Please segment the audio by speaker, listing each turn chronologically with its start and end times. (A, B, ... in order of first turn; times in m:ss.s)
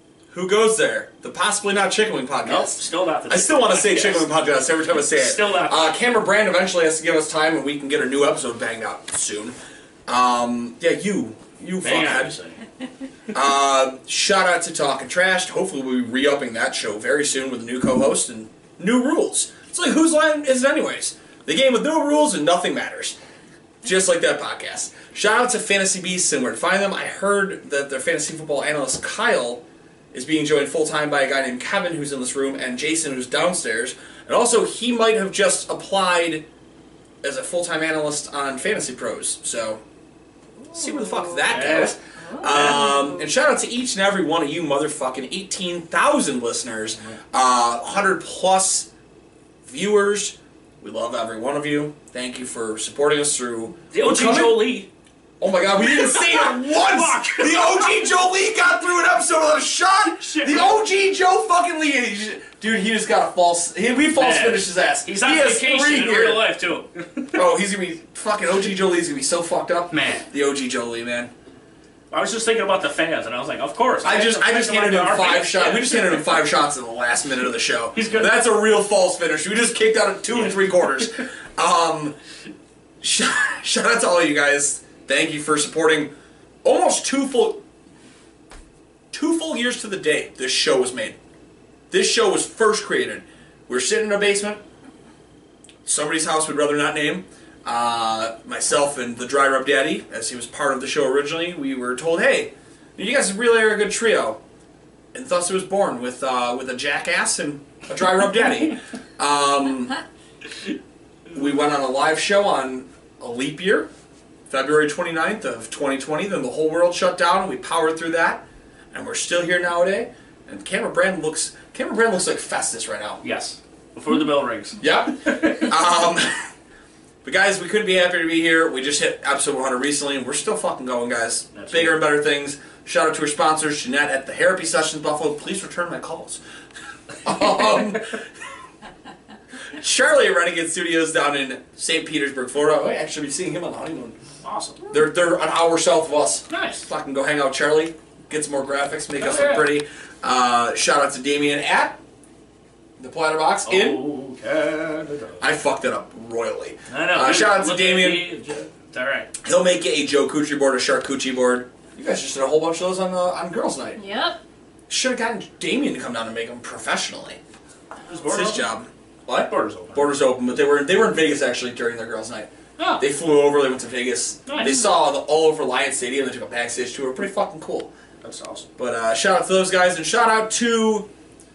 0:00.3-0:09.6 A
0:02.4-0:04.4 B
0:05.0-0:06.0 B
0:10.1-0:12.3 A
0:11.8-0:12.6 B
0:13.3-0:23.2 A
0:23.8-0:36.4 A
0:37.2-0:39.8 A
0:40.6-0:43.3 C
0:40.7-0:48.9 A
0:41.4-0:42.0 B
0:42.5-0:42.8 B
0:49.6-0:54.8 A
0:53.9-0:54.9 B
0:55.4-1:06.5 A
0:55.8-0:58.1 B
1:00.0-1:00.8 B
1:04.1-1:07.4 B
1:07.3-1:11.3 A
1:09.9-1:10.3 B
1:12.1-1:16.4 B
1:14.0-1:22.2 A
1:17.9-1:18.4 B
1:20.3-1:21.0 B
1:23.0-1:26.1 A
1:26.6-1:27.6 A
1:29.1-1:31.2 A
1:31.9-1:34.6 A
1:35.8-1:44.4 A
1:45.1-1:50.0 A
1:51.3-1:53.9 A
1:54.5-2:03.2 A
2:03.2-2:05.7 B
2:04.8-2:06.4 A
2:07.2-2:16.4 A
2:11.5-2:12.0 B
2:17.2-2:18.2 A
2:19.7-2:24.2 A
2:24.4-2:24.8 B
2:24.9-2:32.0 A
2:26.5-2:26.9 B
2:29.2-2:29.7 B
2:33.0-2:34.0 A
2:33.6-2:35.4 B
2:35.4-2:38.3 A
2:36.9-2:39.3 B
2:39.4-2:44.0 A
2:44.0-2:44.4 C
2:44.9-2:47.4 A
2:48.1-2:48.7 B
2:48.3-2:57.9 A
2:49.4-2:50.1 B
2:52.8-2:53.0 B
2:54.5-2:54.9 B
2:58.2-2:58.7 B
2:58.8-3:01.1 A